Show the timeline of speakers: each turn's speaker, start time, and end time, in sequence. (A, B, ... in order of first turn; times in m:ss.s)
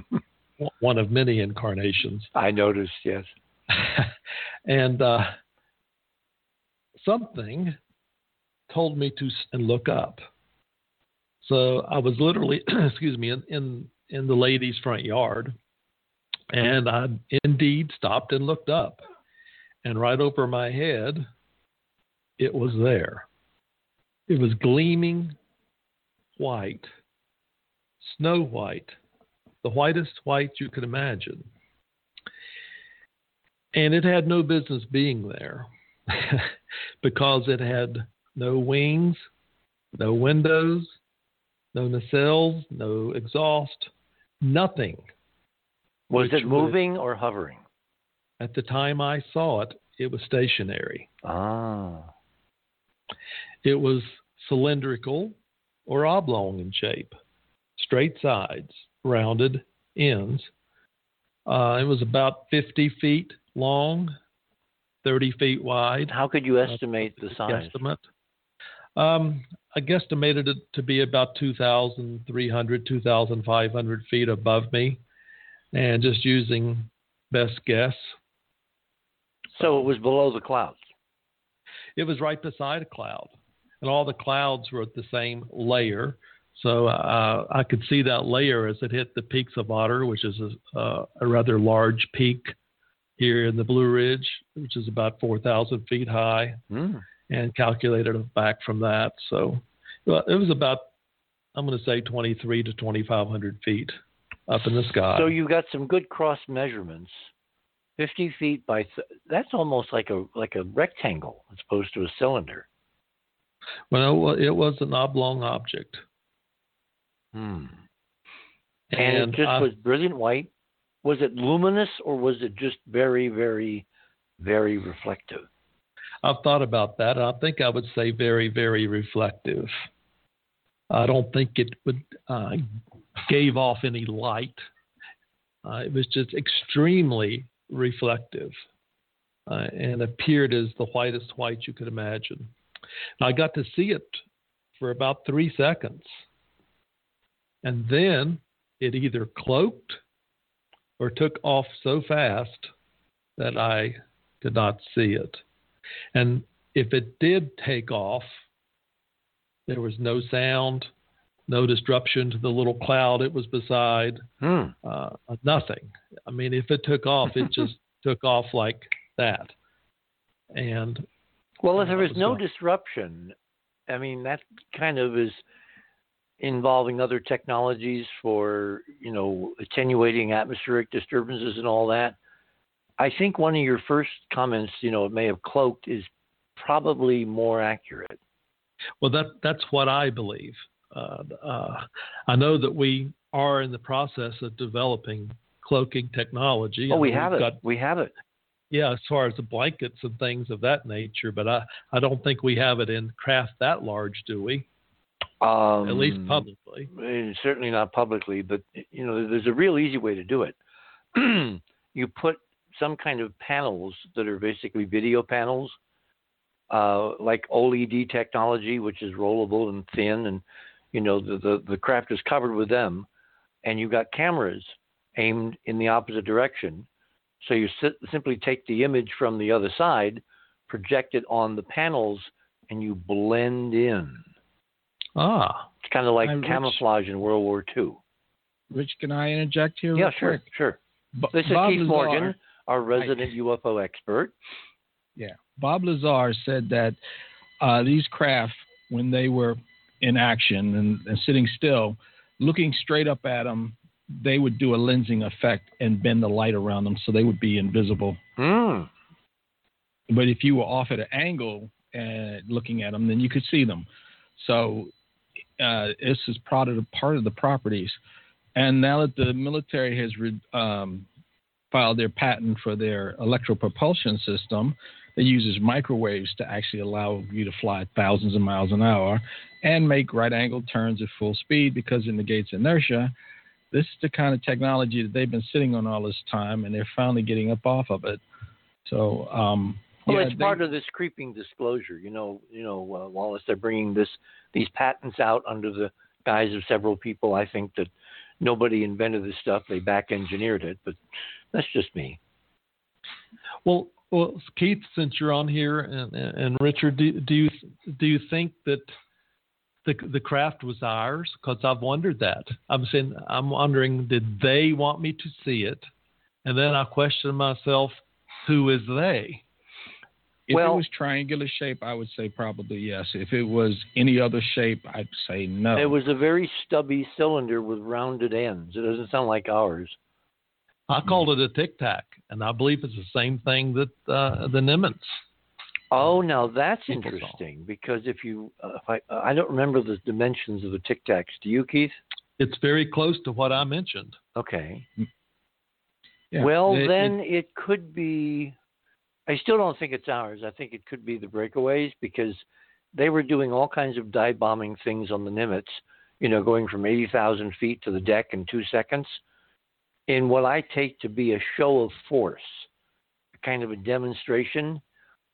0:00.6-0:02.3 A
0:02.3-0:03.3 B
0:03.7-0:04.1 A
0:04.6-0:05.4 A
0:07.0-0:07.8 A
0:08.7-0:10.2 A
0:11.4-0:15.5 A
0:16.5-0:19.0 A
0:19.8-0:21.3 A
0:22.4-0:23.2 A
0:24.3-0:25.4 A
0:26.4-0:26.9 A
0:28.0-0:29.0 A
0:29.6-0:31.5 A
0:33.7-0:39.2 A
0:39.9-0:41.0 A
0:41.7-0:43.9 A
0:44.4-0:45.0 A
0:46.1-0:47.6 B
0:46.2-0:46.8 A
0:48.4-0:51.1 A
0:51.2-0:52.1 B
0:53.6-0:57.1 A
0:57.8-1:00.5 A
1:01.4-1:04.1 A
1:05.0-1:06.1 A
1:06.1-1:07.8 B
1:06.6-1:08.0 A
1:09.0-1:15.0 A
1:15.7-1:18.1 A
1:19.6-1:20.8 B
1:22.0-1:32.5 A
1:33.2-1:36.6 A
1:36.7-1:37.0 B
1:37.3-1:40.8 A
1:41.5-1:44.0 A
1:44.5-1:45.3 A
1:45.1-1:47.2 B
1:48.0-1:52.7 B
1:53.9-1:56.0 A
1:57.3-1:57.8 B
1:58.9-1:59.7 A
1:59.0-2:00.5 B
2:01.0-2:03.8 B
2:04.4-2:05.5 B
2:06.2-2:09.7 A
2:10.9-2:12.6 A
2:13.2-2:14.6 A
2:15.6-2:18.5 A
2:19.5-2:22.5 A
2:23.2-2:24.2 A
2:24.8-2:26.2 A
2:27.6-2:30.0 A
2:31.0-2:32.7 A
2:33.4-2:35.4 A
2:36.1-2:38.3 A
2:39.7-2:40.9 A
2:41.5-2:44.2 A
2:44.4-2:44.7 B
2:44.8-2:49.5 A
2:50.5-2:51.1 A
2:51.6-2:53.3 B
2:51.8-2:52.4 A
2:53.9-2:55.4 B
2:56.4-3:02.2 B
3:03.0-3:08.2 B
3:09.0-3:17.6 A
3:16.9-3:18.1 B
3:18.7-3:24.6 A
3:25.4-3:30.6 B
3:25.8-3:26.9 A
3:31.1-3:35.8 B
3:36.7-3:43.1 B
3:43.6-3:46.9 B
3:47.4-3:54.2 B
3:55.2-3:55.7 A
3:55.8-3:58.0 B
3:56.2-3:56.8 C
3:58.7-4:00.4 C
3:59.9-4:00.8 B
4:01.2-4:02.3 C
4:01.3-4:04.3 B
4:05.2-4:07.0 C
4:07.6-4:18.2 C
4:18.4-4:18.9 B
4:20.1-4:24.9 C
4:25.6-4:28.0 C
4:28.6-4:31.1 C
4:31.7-4:43.1 C
4:43.7-4:48.2 C
4:48.8-4:50.6 C
4:50.0-5:01.0 B
5:01.5-5:02.2 B
5:03.6-5:08.9 A
5:09.8-5:15.8 A
5:16.4-5:19.4 A
5:20.5-5:26.0 C
5:20.5-5:20.8 B
5:25.7-5:30.0 B
5:30.9-5:35.2 A
5:35.9-5:42.0 B
5:36.9-5:37.4 A
5:42.4-5:44.2 A
5:44.4-5:44.9 B
5:46.3-5:47.1 C
5:46.4-5:48.5 B
5:49.3-5:52.4 B
5:52.9-5:59.2 B
6:00.1-6:02.7 B
6:03.4-6:04.8 B